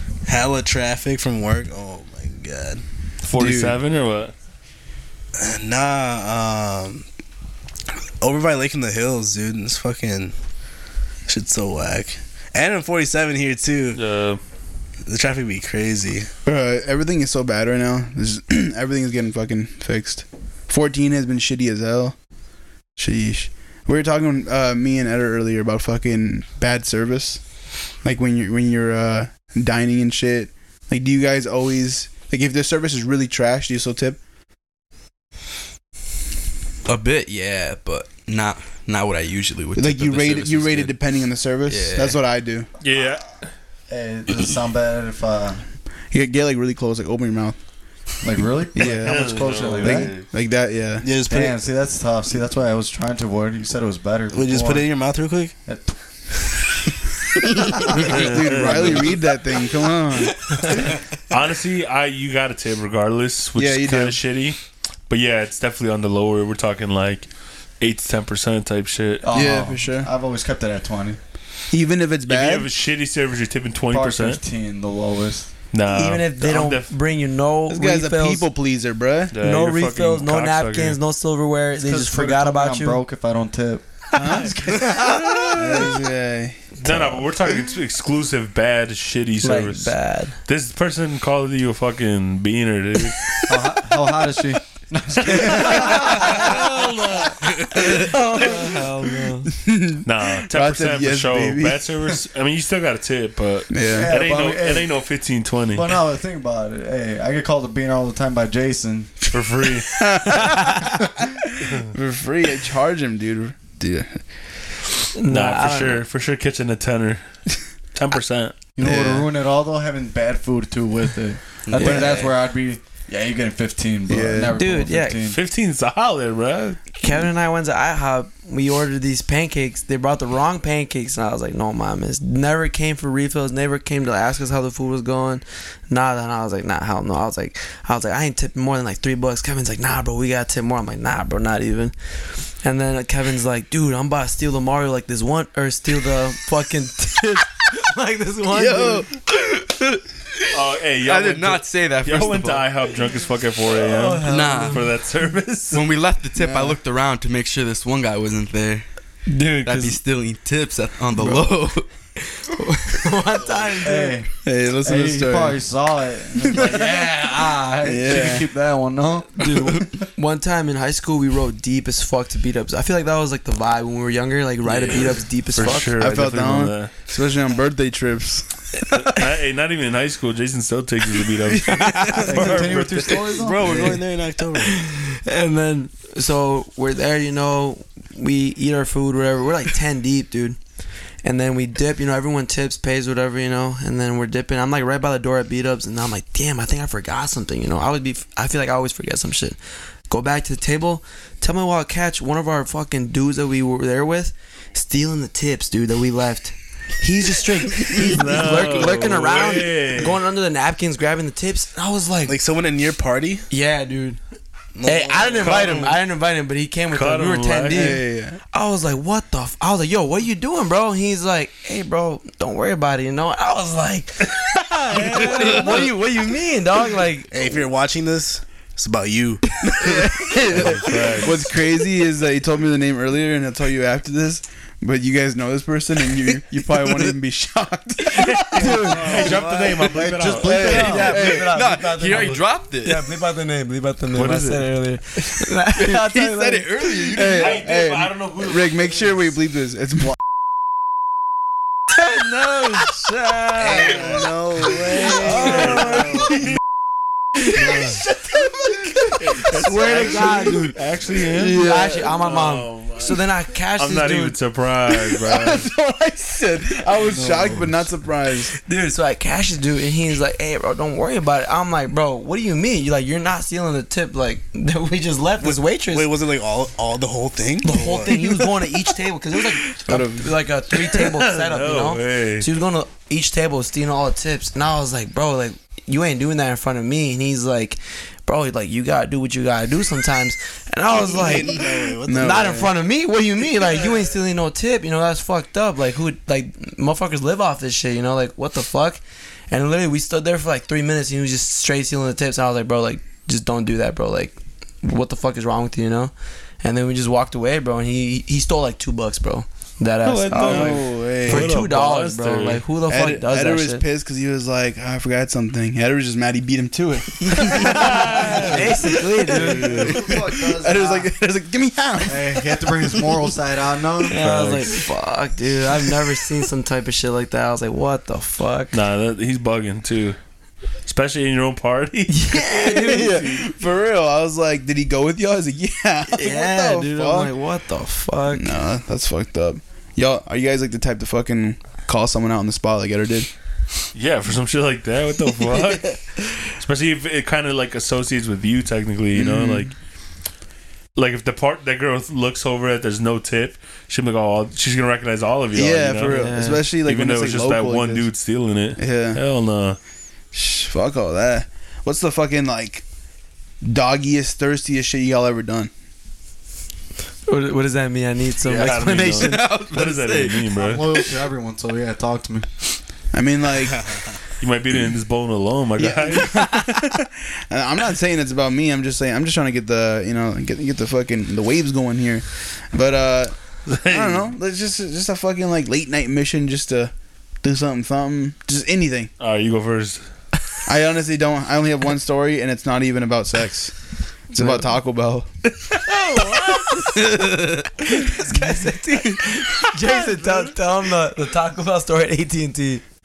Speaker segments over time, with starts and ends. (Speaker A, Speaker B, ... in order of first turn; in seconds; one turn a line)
Speaker A: 0.2-2.8
Speaker B: 3.2-4.3
Speaker C: 3.3-3.8
Speaker A: 5.4-7.1
Speaker A: 8.2-10.3
Speaker A: 11.3-14.0
Speaker B: 13.9-14.4
Speaker A: 15.1-16.3
Speaker C: 16.4-22.1
Speaker C: 23.0-27.4
Speaker C: 28.0-34.2
Speaker D: 36.9-40.9
Speaker C: 39.8-42.7
Speaker D: 41.7-42.2
Speaker B: 42.8-43.5
Speaker E: 43.9-45.6
Speaker C: 46.1-47.6
Speaker E: 48.2-50.2
Speaker C: 48.8-51.5
Speaker B: 49.0-50.3
Speaker A: 51.0-51.6
Speaker E: 51.3-54.9
Speaker A: 54.3-55.5
Speaker E: 55.6-56.0
Speaker E: 57.9-58.8
Speaker C: 57.9-60.5
Speaker B: 58.0-59.1
Speaker B: 60.8-64.6
Speaker C: 63.6-64.2
Speaker B: 65.1-69.3
Speaker E: 69.2-71.2
Speaker C: 69.3-70.1
Speaker C: 71.7-72.7
Speaker B: 72.3-74.4
Speaker E: 73.9-75.5
Speaker B: 75.7-76.9
Speaker F: 75.9-78.5
Speaker C: 77.7-79.3
Speaker B: 79.3-81.0
Speaker F: 79.4-83.0
Speaker E: 81.8-85.5
Speaker C: 84.1-84.6
Speaker F: 84.7-85.0
Speaker C: 85.5-87.2
Speaker B: 86.8-93.4
Speaker F: 89.4-90.4
Speaker E: 93.5-96.5
Speaker B: 95.3-97.4
Speaker F: 95.9-96.7
Speaker F: 97.8-99.5
Speaker C: 97.8-98.9
Speaker C: 99.5-102.0
Speaker B: 100.0-106.0
Speaker C: 103.7-104.2
Speaker E: 103.9-105.0
Speaker E: 105.7-109.2
Speaker B: 109.3-110.0
Speaker C: 109.9-114.2
Speaker F: 115.2-116.0
Speaker B: 115.3-117.2
Speaker B: 117.9-118.6
Speaker E: 118.8-125.4
Speaker C: 118.8-119.3
Speaker D: 121.7-122.5
Speaker F: 121.8-122.3
Speaker C: 124.1-124.6
Speaker F: 124.6-125.2
Speaker B: 125.2-126.8
Speaker F: 127.0-149.8
Speaker C: 148.5-149.1
Speaker B: 150.5-155.9
Speaker D: 151.0-152.7
Speaker F: 153.7-154.8
Speaker D: 154.2-154.9
Speaker D: 155.7-158.9
Speaker C: 156.4-156.8
Speaker B: 159.3-159.9
Speaker D: 159.6-162.1
Speaker F: 162.6-164.2
Speaker E: 163.8-170.0
Speaker C: 164.4-165.6
Speaker C: 166.4-167.2
Speaker C: 167.8-168.5
Speaker F: 169.5-175.9
Speaker A: 174.8-175.2
Speaker B: 175.5-176.9
Speaker C: 175.9-178.9
Speaker B: 178.9-183.3
Speaker F: 181.7-182.2
Speaker E: 182.2-184.0
Speaker A: 182.6-184.8
Speaker F: 184.6-190.6
Speaker F: 191.2-199.6
Speaker F: 200.1-212.3
Speaker B: 208.0-210.2
Speaker A: 212.2-213.5
Speaker F: 213.5-214.2
Speaker A: 214.8-215.9
Speaker F: 214.9-227.6
Speaker B: 215.3-215.9
Speaker B: 216.9-218.0
Speaker C: 217.7-218.4
Speaker B: 224.9-225.9
Speaker A: 225.6-225.9
Speaker A: 227.3-230.8
Speaker C: 229.7-239.0
Speaker B: 230.5-231.3
Speaker B: 238.2-240.7
Speaker F: 238.5-239.5
Speaker E: 238.6-241.1
Speaker D: 239.3-239.7
Speaker F: 240.4-247.1
Speaker C: 240.4-241.5
Speaker D: 240.8-243.1
Speaker B: 244.2-244.7
Speaker D: 245.7-247.6
Speaker C: 246.8-250.2
Speaker B: 247.3-249.2
Speaker B: 252.0-254.3
Speaker A: 253.6-255.5
Speaker F: 254.9-255.9
Speaker C: 255.2-256.5
Speaker B: 255.3-256.4
Speaker B: 257.5-258.0
Speaker C: 257.8-260.7
Speaker B: 259.3-263.2
Speaker F: 259.5-260.8
Speaker C: 261.3-261.9
Speaker F: 261.4-264.4
Speaker B: 263.8-265.7
Speaker C: 265.2-268.5
Speaker E: 267.1-267.7
Speaker F: 268.7-276.1
Speaker A: 275.4-278.5
Speaker F: 277.6-313.9
Speaker C: 279.9-280.4
Speaker B: 280.8-282.5
Speaker A: 290.9-292.7
Speaker C: 292.1-292.7
Speaker B: 310.0-312.6
Speaker C: 310.4-311.5
Speaker C: 312.9-323.3
Speaker F: 317.4-319.8
Speaker B: 317.6-318.6
Speaker E: 318.3-318.6
Speaker E: 319.2-321.1
Speaker B: 319.4-320.0
Speaker E: 322.1-324.2
Speaker F: 324.1-328.8
Speaker B: 324.2-324.7
Speaker B: 328.7-330.2
Speaker B: 330.9-332.5
Speaker F: 332.1-333.4
Speaker C: 332.5-337.3
Speaker F: 336.1-338.5
Speaker C: 338.3-343.3
Speaker B: 343.9-349.7
Speaker C: 349.1-349.7
Speaker B: 351.0-359.8
Speaker C: 355.5-358.1
Speaker F: 356.1-356.6
Speaker C: 358.8-359.2
Speaker C: 360.3-362.9
Speaker C: 363.6-365.7
Speaker F: 367.3-369.5
Speaker B: 368.5-370.9
Speaker D: 369.0-370.5
Speaker E: 370.5-372.5
Speaker C: 373.1-373.8
Speaker B: 374.4-376.5
Speaker C: 375.8-389.1
Speaker B: 383.7-384.3
Speaker B: 389.2-390.0
Speaker C: 390.7-393.8
Speaker C: 394.3-395.3
Speaker F: 394.3-394.7
Speaker F: 395.9-402.8